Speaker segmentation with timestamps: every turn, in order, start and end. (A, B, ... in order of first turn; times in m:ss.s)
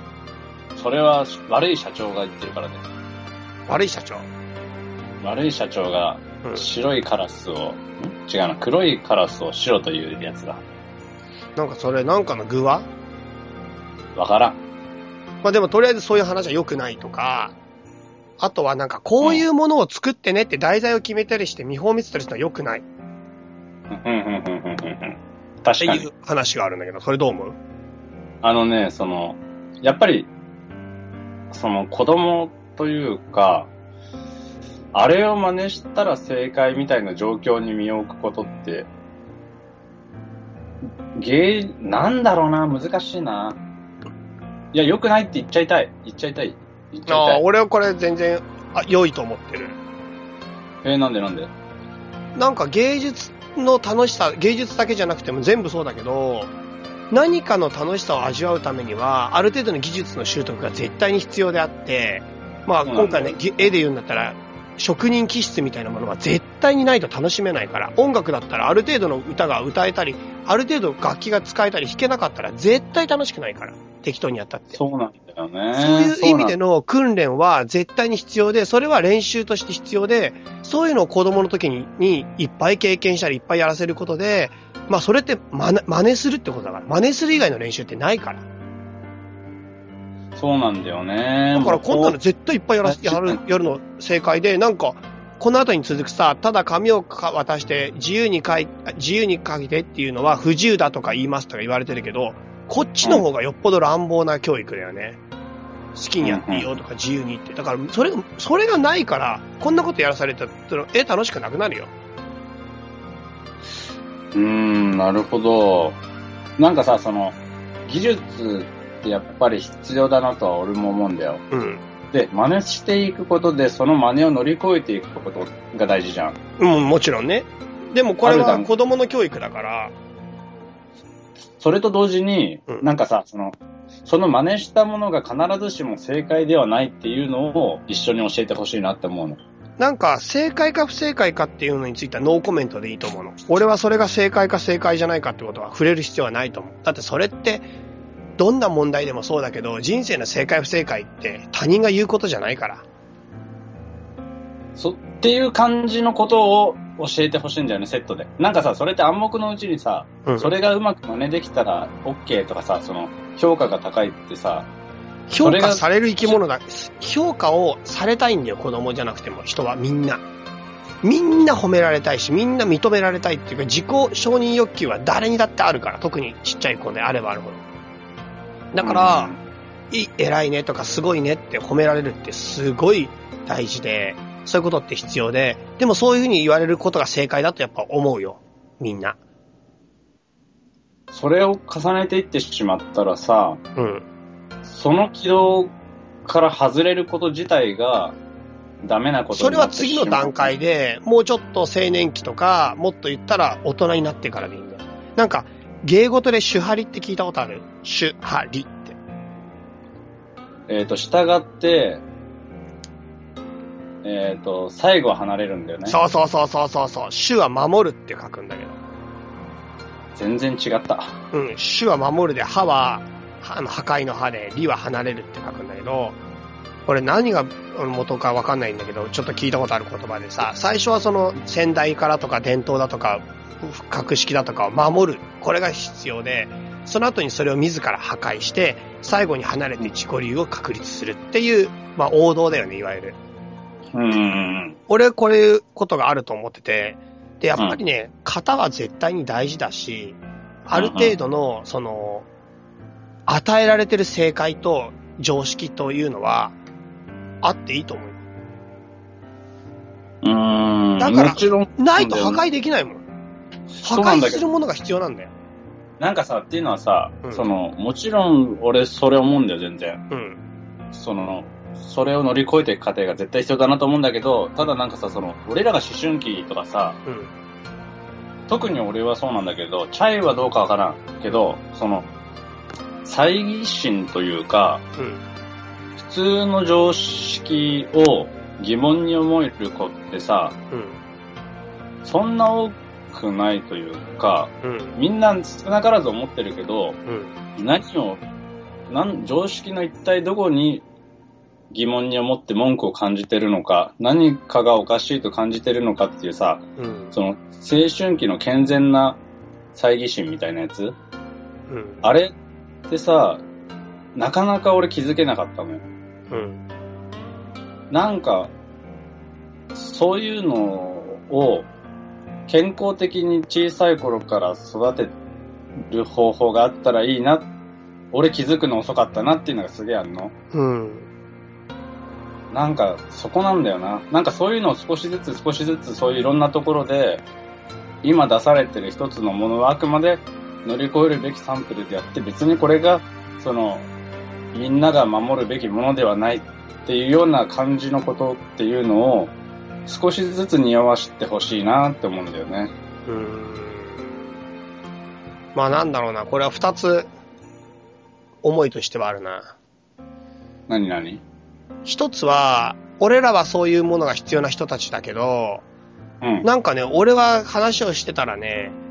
0:00.8-0:02.8 A
0:03.7-0:04.3 B
0:05.2-0:10.6 A
0:11.6-0:12.9 B
0:14.1-0:14.6 A
0:15.4-0:17.6 B
0:18.4-0:22.8 B
0:19.2-0:19.4 A
0:23.9-0:26.1 A
0:25.8-0:27.6 B
0:28.4-0:30.3 A
0:31.5-0:33.7 A
0:34.9-0:38.9 A
0:41.1-0:43.6 A
0:44.7-0:47.4 A
0:47.1-0:49.8 B
0:50.8-0:51.5 A
0:52.4-0:56.5 B
0:57.1-1:14.8 B
1:02.8-1:03.6 A
1:14.7-1:16.6 A
1:15.8-1:28.4 B
1:30.4-1:32.2 A
1:31.5-1:45.2 B
1:32.8-1:33.4 A
1:45.9-1:51.9 B
1:46.2-1:46.7 A
1:54.3-1:56.0 A
1:56.6-2:01.4 A
2:01.5-2:01.8 B
2:02.1-2:06.4 A
2:06.6-2:09.9 B
2:08.2-2:08.7 A
2:11.6-2:19.4 A
2:19.8-2:27.7 B
2:28.4-2:32.8 B
2:34.8-2:44.7 A
2:40.3-2:40.5 B
2:45.3-2:50.2 B
2:45.4-2:46.4 A
2:51.0-2:57.6 B
2:58.7-2:59.3 B
2:58.8-2:59.4 A
2:59.9-3:09.2 B
3:11.1-3:13.6 A
3:13.8-3:14.0 B
3:14.6-3:15.7 A
3:16.2-3:18.2 A
3:18.8-3:20.5 A
3:19.3-3:29.0 B
3:30.7-3:32.0 A
3:34.0-3:36.0 A
3:35.9-3:38.8 B
3:40.1-3:41.2 A
3:41.3-3:46.2 B
3:46.9-4:03.2 B
4:03.9-4:04.8 A
4:04.9-4:12.3 B
4:10.7-4:11.1 A
4:13.3-4:16.6 B
4:17.4-4:18.2 B
4:20.2-4:22.4 A
4:21.0-4:23.0 B
4:23.7-4:24.4 A
4:23.8-4:25.3 B
4:26.0-4:30.0 A
4:30.1-4:30.4 B
4:30.9-4:37.0 A
4:37.0-4:37.3 B
4:38.5-4:42.1 A
4:43.0-4:44.8 A
4:45.0-4:45.2 B
4:46.0-4:50.6 A
4:50.7-4:51.0 B
4:52.0-4:57.0 A
4:54.6-4:54.9 B
4:57.1-4:57.4 B
4:57.6-4:58.2 A
4:58.9-5:00.8 A
5:01.7-5:09.2 A
5:06.8-5:07.1 B
5:09.8-5:11.0 A
5:11.7-5:12.0 B
5:12.0-5:12.3 A
5:12.9-5:13.4 A
5:14.2-5:15.9 A
5:16.3-5:16.6 B
5:17.9-5:18.5 A
5:19.7-5:21.7 A
5:22.5-5:25.1 A
5:25.8-5:27.5 A
5:28.1-5:30.3 A
5:30.5-5:31.1 B
5:32.5-5:37.2 A
5:38.0-5:43.9 A
5:44.5-5:49.3 A
5:49.9-5:52.7 A
5:53.1-5:54.3 B
5:55.6-5:57.1 B
5:58.4-5:59.5 B
6:00.7-6:01.2 A
6:01.8-6:05.6 B
6:06.2-6:06.4 A
6:06.4-6:08.8 B